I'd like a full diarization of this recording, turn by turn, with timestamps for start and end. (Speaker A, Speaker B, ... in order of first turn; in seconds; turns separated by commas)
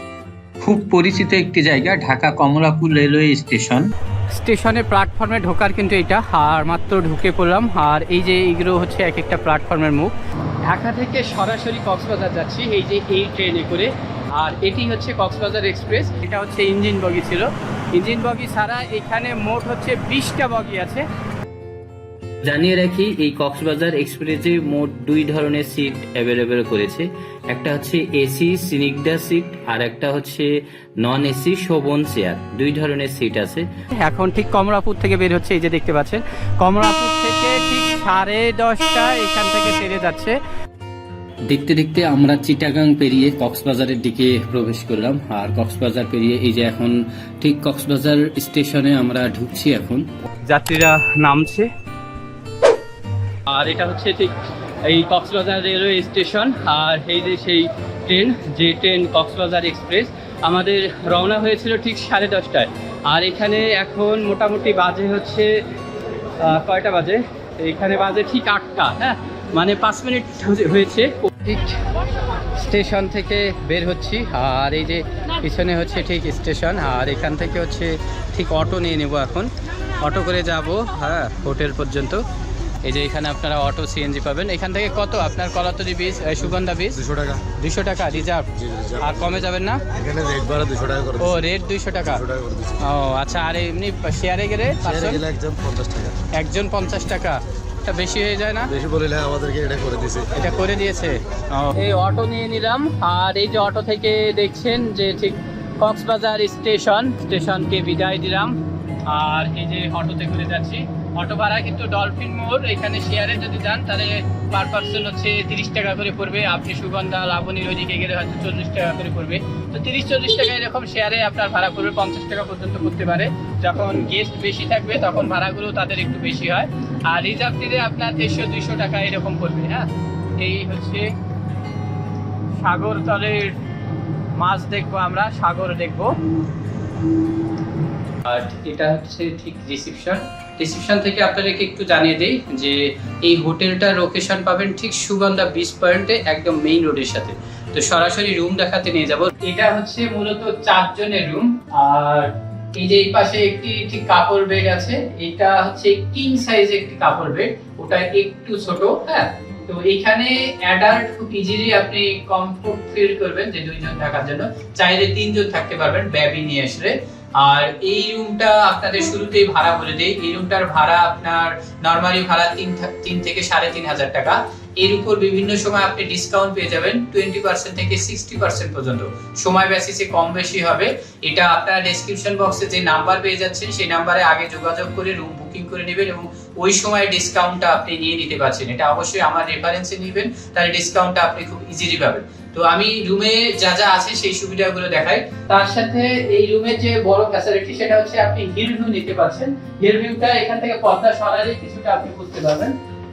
Speaker A: 0.6-3.9, Speaker B: 4.3-10.1, Speaker B: 10.7-21.1, Speaker A: 22.4-33.7, Speaker B: 34.0-40.4, Speaker A: 41.5-50.1, Speaker B: 50.5-51.7, Speaker B: 53.5-54.3, Speaker B: 54.9-65.6, Speaker B: 66.4-71.7, Speaker B: 72.6-82.2, Speaker B: 82.8-87.0, Speaker C: 87.1-87.4, Speaker B: 87.6-89.8, Speaker C: 88.6-89.1, Speaker C: 90.0-91.3, Speaker B: 91.2-92.3, Speaker C: 92.2-92.8, Speaker B: 92.8-95.3, Speaker C: 94.8-96.2, Speaker B: 96.4-98.7, Speaker C: 98.7-100.3, Speaker B: 100.4-129.9, Speaker B: 130.4-131.1, Speaker B: 132.6-133.6, Speaker B: 134.4-136.2, Speaker B: 138.2-202.8